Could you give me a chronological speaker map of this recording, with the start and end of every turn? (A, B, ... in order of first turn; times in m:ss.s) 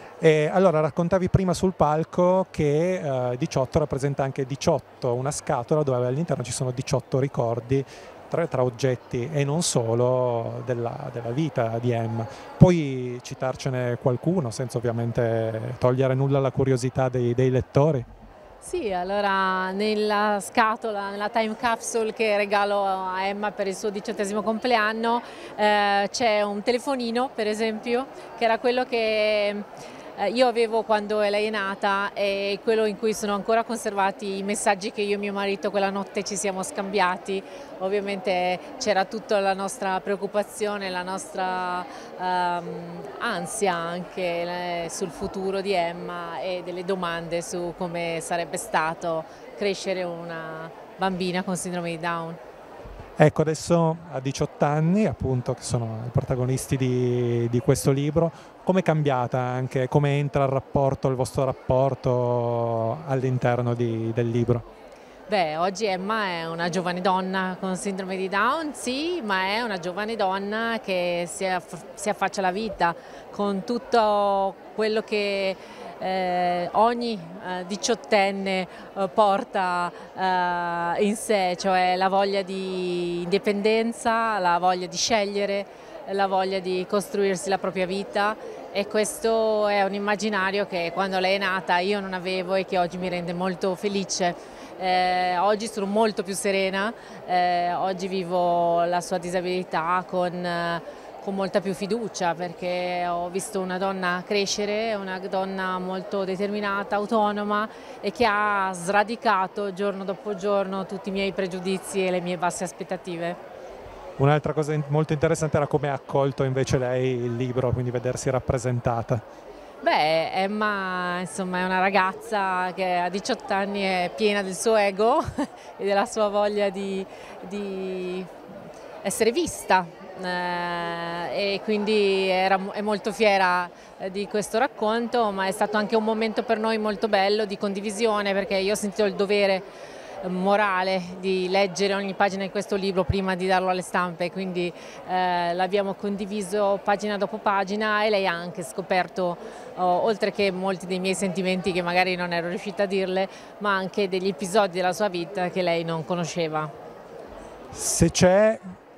0:00.2-0:18.1 A
0:18.6-0:29.7 B
0:30.2-0:52.4 B
0:53.2-1:04.7 A
1:05.3-1:53.4 B
1:54.2-1:59.2 A
1:59.8-2:08.3 B
2:09.0-2:19.6 B
2:20.2-2:36.7 B
2:37.7-2:38.6 A